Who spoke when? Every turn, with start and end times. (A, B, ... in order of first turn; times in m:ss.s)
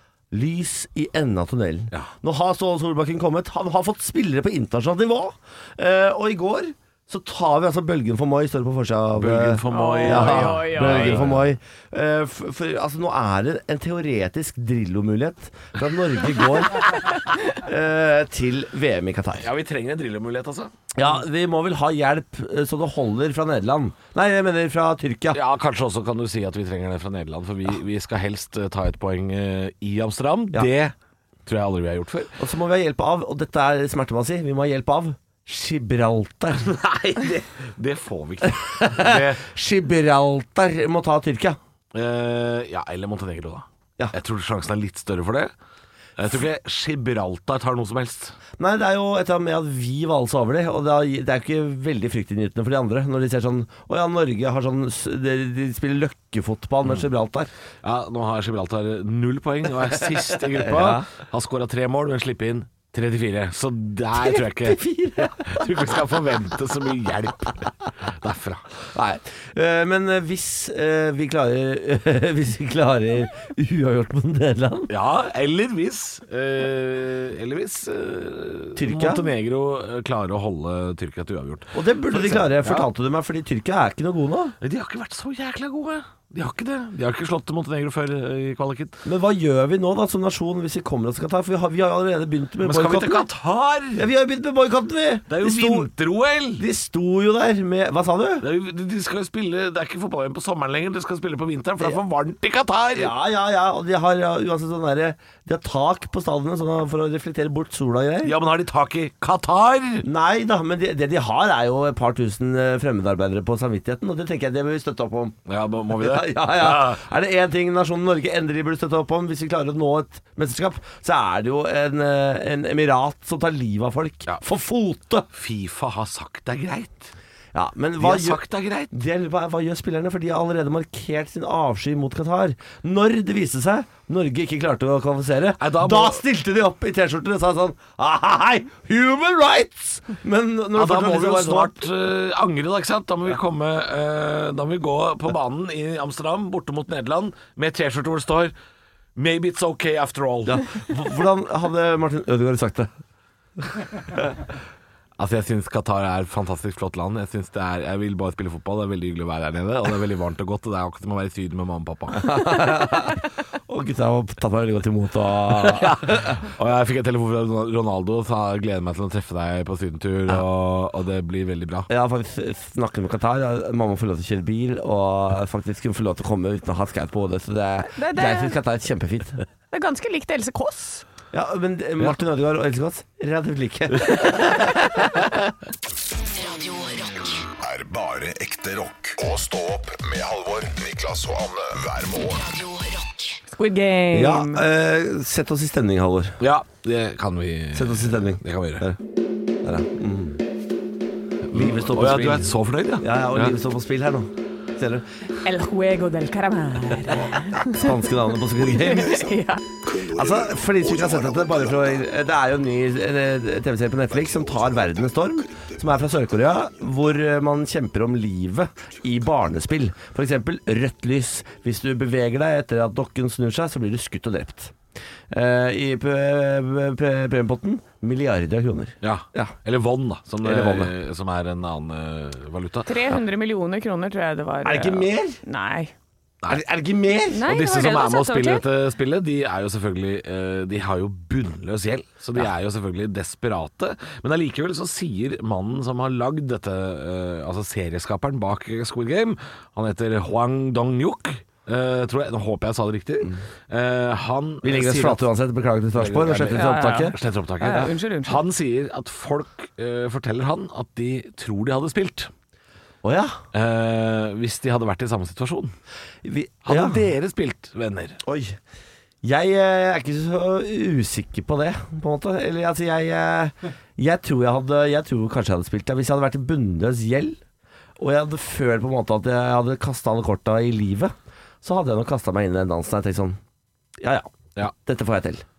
0:00.3-0:19.5 A
0:09.2-0:11.5 B
0:09.7-0:11.2 C
0:19.4-0:20.7 B
0:21.0-0:25.4 A
0:25.3-0:30.9 B
0:31.5-0:32.3 B
0:32.4-0:37.4 A
0:37.2-0:39.4 B
0:38.5-0:41.6 A
0:41.9-0:45.5 B
0:46.2-0:48.4 B
0:48.6-0:57.5 A
0:57.8-1:08.8 B
1:00.4-1:01.1 A
1:04.1-1:05.7 A
1:08.9-1:14.9 A
1:14.9-1:22.9 B
1:18.8-1:19.2 A
1:21.7-1:24.6 A
1:24.6-1:29.0 B
1:29.0-1:33.3 A
1:32.6-1:34.1 B
1:34.0-1:35.9 A
1:35.3-1:36.6 B
1:36.6-1:38.5 A
1:38.4-1:43.1 B
1:43.0-1:48.4 A
1:48.2-1:50.0 B
1:50.0-1:55.4 A
1:55.5-1:57.0 B
1:55.9-2:05.3 A
2:05.3-2:07.1 B
2:07.5-2:21.8 A
2:08.0-2:08.9 B
2:15.6-2:16.2 B
2:20.8-2:28.5 B
2:29.2-2:30.7 B
2:30.5-2:32.9 A
2:35.2-2:42.4 B
2:42.2-2:46.4 A
2:45.6-2:51.9 B
2:51.9-2:59.4 A
2:58.0-2:58.6 C
2:59.7-3:01.0 C
3:01.3-3:05.1 A
3:06.3-3:07.5 D
3:07.6-3:12.5 E
3:12.4-3:13.4 D
3:13.5-3:14.6 C
3:14.1-3:16.4 A
3:16.4-3:18.9 B
3:17.7-3:19.0 A
3:19.6-3:20.4 A
3:21.5-3:23.5 B
3:21.5-3:25.1 A
3:25.4-3:29.6 C
3:27.7-3:29.3 A
3:29.8-3:31.8 E
3:30.1-3:44.8 A
3:34.2-3:34.9 E
3:45.3-3:49.5 A
3:49.0-3:52.9 B
3:50.4-3:50.9 A
3:52.9-3:55.9 C
3:54.6-3:55.4 A
3:56.5-3:57.5 A
3:57.3-3:58.6 C
3:57.4-4:15.2 B
4:14.6-4:17.2 A
4:16.0-4:22.3 B
4:16.6-4:18.4 C
4:23.0-4:23.4 A
4:23.5-4:25.7 B
4:26.2-4:27.0 A
4:26.7-4:28.2 B
4:28.2-4:28.6 A
4:29.2-4:37.4 A
4:38.0-4:43.4 A
4:44.0-4:45.4 A